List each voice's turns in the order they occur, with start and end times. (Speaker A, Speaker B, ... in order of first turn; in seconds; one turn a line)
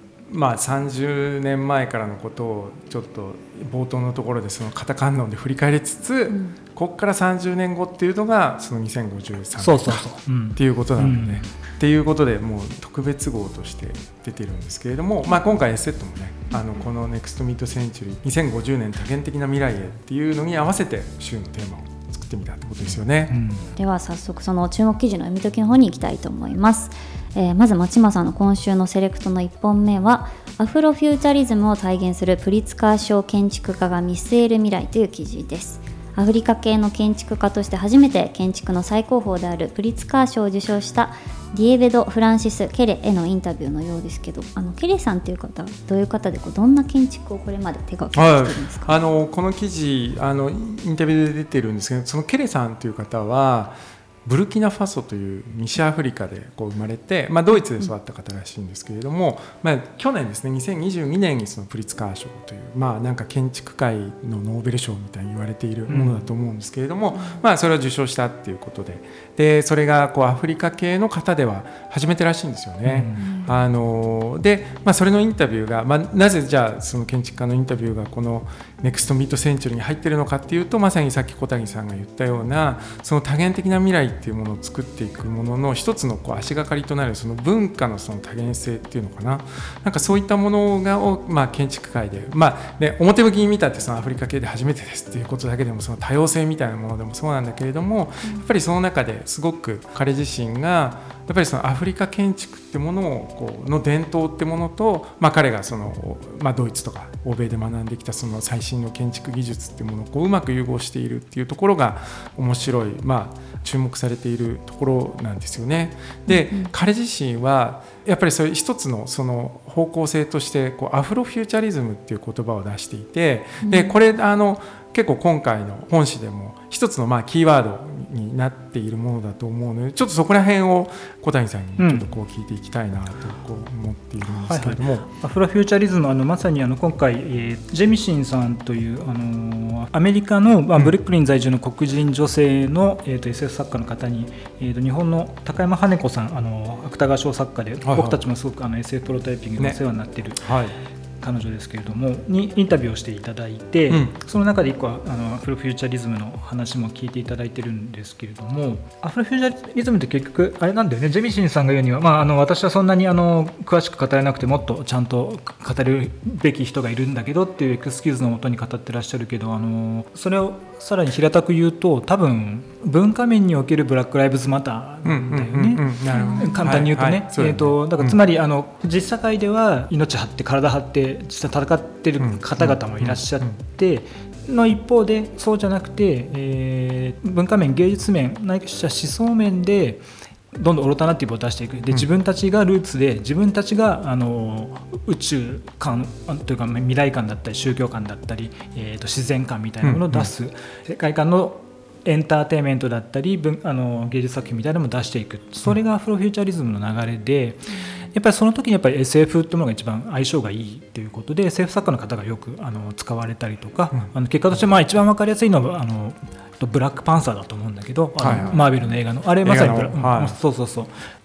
Speaker A: 0.3-23.4
Speaker B: 9.6-11.5
Speaker B: 23.3-23.7
Speaker C: 23.8-49.0
Speaker A: 48.1-135.1
Speaker B: 65.9-66.2
Speaker C: 67.1-67.4
Speaker B: 72.8-73.3
Speaker C: 73.2-73.5
Speaker C: 116.3-116.7
Speaker C: 123.6-123.9
Speaker B: 131.8-132.0
Speaker B: 134.3-150.5
Speaker A: 147.8-148.2
Speaker A: 150.4-150.8
Speaker B: 151.2-221.0
Speaker A: 153.9-154.1
Speaker A: 175.0-178.2
Speaker C: 176.1-176.6
Speaker A: 182.2-183.5
Speaker A: 199.8-200.3
Speaker A: 218.2-218.6
Speaker A: 219.4-220.3